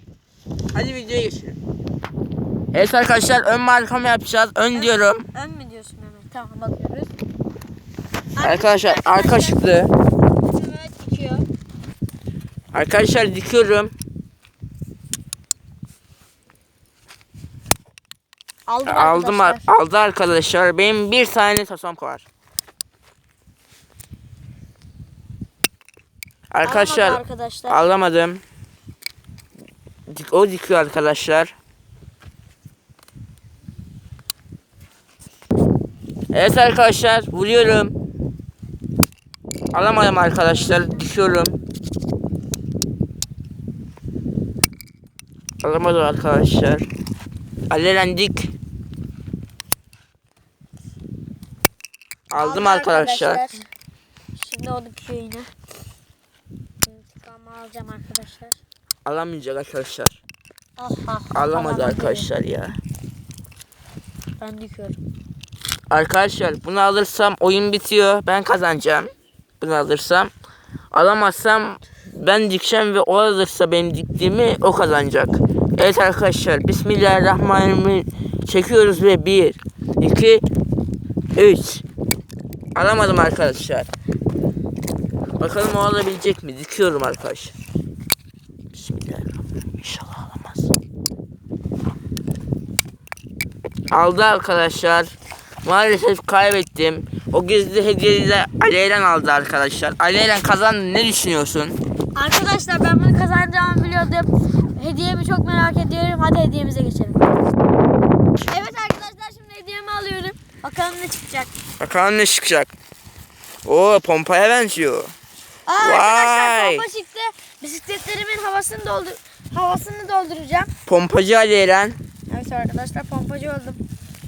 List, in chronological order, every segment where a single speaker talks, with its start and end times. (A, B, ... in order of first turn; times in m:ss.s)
0:00.7-0:01.6 A
0:02.7-0:05.3 A
0:04.7-0:07.1 B
0:08.4-0:09.6 B
0:08.4-0:09.9 A
0:10.3-0:11.4 B
0:12.7-0:13.9 A
0:18.7-0:19.7 B
0:18.9-0:22.3 A
0:26.5-0:28.4 A
0:26.6-0:27.8 B
0:30.1-0:31.5 A
0:36.3-0:38.0 A
0:39.7-0:41.6 A
0:45.6-0:46.9 A
0:47.7-0:48.5 A
0:52.3-0:53.4 A
0:52.4-0:53.7 B
0:54.4-0:55.5 B
0:56.8-0:58.6 B
0:59.0-1:00.2 A
1:00.8-1:02.3 B
1:01.3-1:02.8 A
1:04.4-1:05.0 B
1:05.9-1:10.3 A
1:10.9-1:20.4 A
1:21.4-1:21.8 A
1:22.8-1:23.9 A
1:25.4-1:27.5 A
1:28.7-1:30.7 A
1:33.9-1:35.1 A
1:35.6-1:41.8 A
1:42.2-1:47.2 B
1:48.5-1:51.5 B
1:51.8-1:52.7 A
1:53.6-1:55.1 A
1:55.7-2:00.7 B
1:55.8-1:56.8 A
2:00.9-2:02.0 A
2:02.3-2:03.8 B